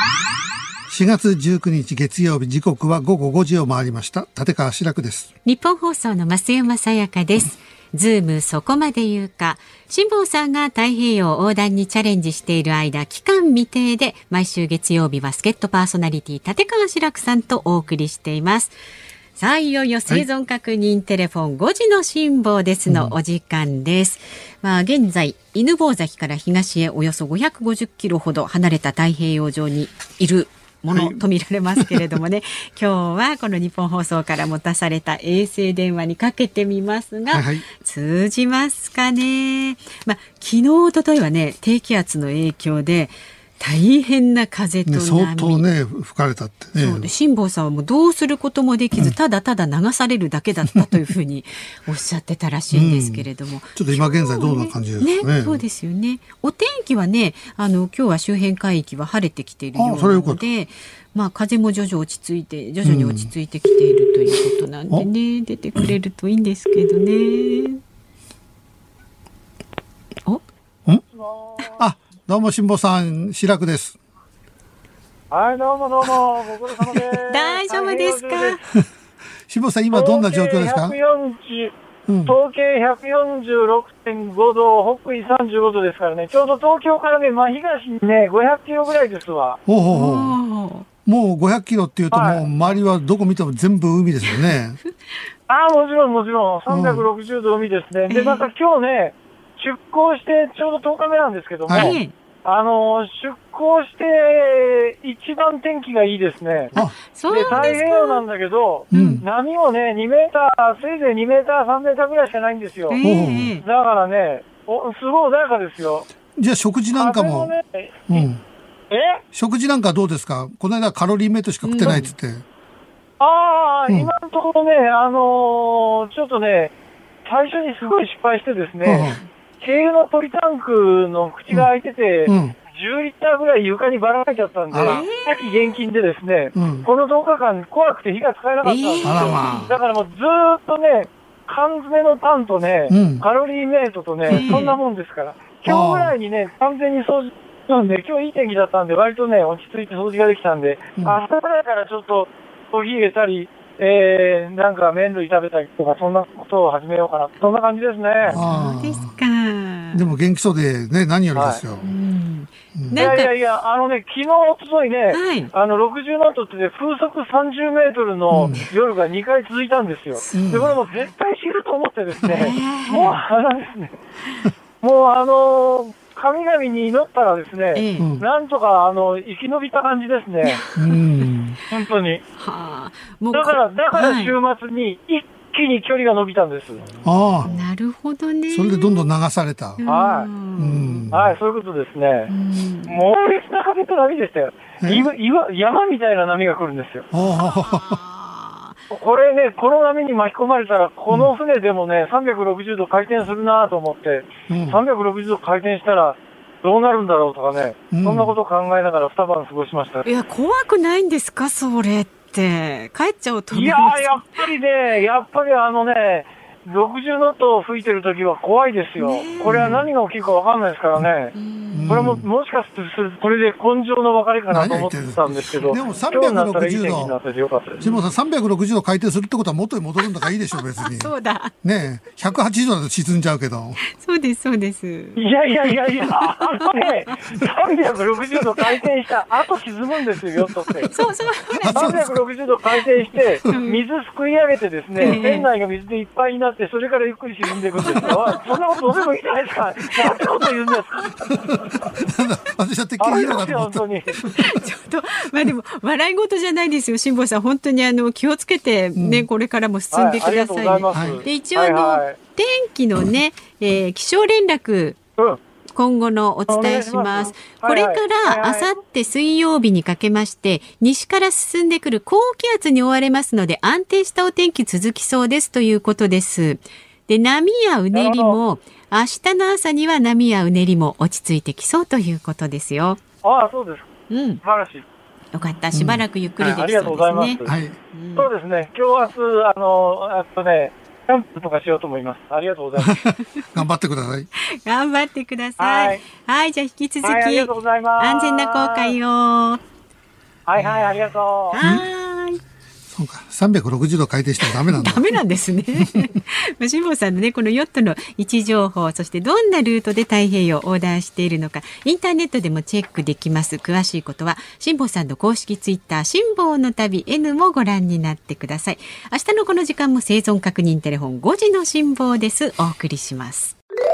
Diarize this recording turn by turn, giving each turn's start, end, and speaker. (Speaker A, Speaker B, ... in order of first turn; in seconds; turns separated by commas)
Speaker A: 0.9-5.3, Speaker B: 5.4-18.7, Speaker B: 19.4-45.6, Speaker A: 22.9-23.1, Speaker A: 30.9-31.2, Speaker A: 37.3-37.6, Speaker A: 44.9-47.1, Speaker B: 46.8-67.8, Speaker A: 52.7-55.6, Speaker A: 59.8-60.4, Speaker A: 62.8-63.3, Speaker C: 71.0-71.8, Speaker A: 71.7-74.0, Speaker C: 75.3-78.6, Speaker B: 77.3-78.6, Speaker A: 79.5-81.0, Speaker C: 79.9-81.7, Speaker A: 82.1-82.4, Speaker C: 82.2-89.6, Speaker A: 89.7-90.4, Speaker B: 89.9-90.9, Speaker A: 91.0-94.8, Speaker C: 92.1-92.4, Speaker C: 95.5-106.7, Speaker A: 96.7-97.0, Speaker B: 98.1-98.5, Speaker A: 101.7-102.0, Speaker B: 101.7-102.1, Speaker A: 106.7-107.5, Speaker B: 106.8-108.2, Speaker C: 107.3-113.0, Speaker B: 108.9-109.2, Speaker A: 108.9-109.2, Speaker B: 112.9-113.6, Speaker A: 113.0-113.5, Speaker C: 113.6-116.1, Speaker A: 116.3-117.5, Speaker C: 116.9-118.2, Speaker A: 118.1-118.4, Speaker C: 118.9-119.2, Speaker A: 119.3-122.4, Speaker B: 121.6-122.1, Speaker C: 123.2-126.7, Speaker C: 127.2-158.4, Speaker A: 128.8-129.2, Speaker A: 132.2-132.5, Speaker A: 134.7-135.0, Speaker B: 134.8-135.3, Speaker A: 136.5-136.9, Speaker B: 138.6-139.7, Speaker A: 139.0-139.7, Speaker A: 142.9-143.2, Speaker B: 144.3-144.8, Speaker A: 145.7-146.2, Speaker A: 158.2-159.2, Speaker B: 158.3-160.0, Speaker A: 159.9-161.9, Speaker C: 161.3-161.6, Speaker B: 161.8-163.3, Speaker A: 162.7-163.1, Speaker C: 162.9-173.9, Speaker B: 165.1-165.5, Speaker A: 168.3-168.7, Speaker B: 170.2-170.5, Speaker A: 170.3-170.7, Speaker B: 172.3-173.2, Speaker C: 174.8-180.6, Speaker B: 177.7-178.1, Speaker A: 178.0-178.2, Speaker A: 180.7-181.6, Speaker C: 181.7-182.2, Speaker B: 182.4-184.3, Speaker C: 183.3-186.8, Speaker A: 187.0-187.6, Speaker B: 187.4-189.1, Speaker A: 188.5-189.8, Speaker B: 189.8-191.1, Speaker C: 189.9-190.3, Speaker A: 190.6-191.3, Speaker C: 191.1-192.3, Speaker B: 192.3-193.0, Speaker C: 192.9-197.1, Speaker A: 194.8-195.1, Speaker A: 197.1-198.0, Speaker B: 197.2-198.8, Speaker C: 198.9-210.0, Speaker A: 204.5-204.8, Speaker A: 207.9-208.3, Speaker B: 210.0-214.4, Speaker C: 213.5-221.3, Speaker B: 219.0-219.7, Speaker A: 219.4-219.9, Speaker B: 221.3-222.1, Speaker A: 221.7-222.2, Speaker C: 221.9-227.8, Speaker A: 224.5-227.1, Speaker A: 227.8-233.8, Speaker B: 230.8-231.5, Speaker B: 233.9-235.2, Speaker C: 235.2-240.9, Speaker B: 236.2-236.7, Speaker B: 240.9-241.9, Speaker A: 241.5-242.2, Speaker C: 241.7-251.2, Speaker B: 243.5-243.8, Speaker B: 245.0-245.5, Speaker A: 251.3-254.4, Speaker C: 253.0-254.2, Speaker B: 254.3-265.0, Speaker A: 258.9-259.3, Speaker C: 259.9-262.2, Speaker A: 260.9-261.2, Speaker B: 265.7-283.0, Speaker C: 266.5-268.7, Speaker C: 277.9-278.4, Speaker C: 283.2-283.9, Speaker B: 284.1-284.4, Speaker C: 284.4-284.8, Speaker B: 285.3-287.4, Speaker A: 285.7-286.0, Speaker C: 286.4-287.6, Speaker A: 287.5-287.8, Speaker B: 287.9-288.3, Speaker C: 288.1-293.0, Speaker A: 292.8-294.3, Speaker B: 294.5-299.6, Speaker C: 295.6-296.0, Speaker C: 297.0-298.9, Speaker C: 300.5-301.6, Speaker B: 300.6-302.4, Speaker A: 302.9-305.1, Speaker B: 304.4-323.6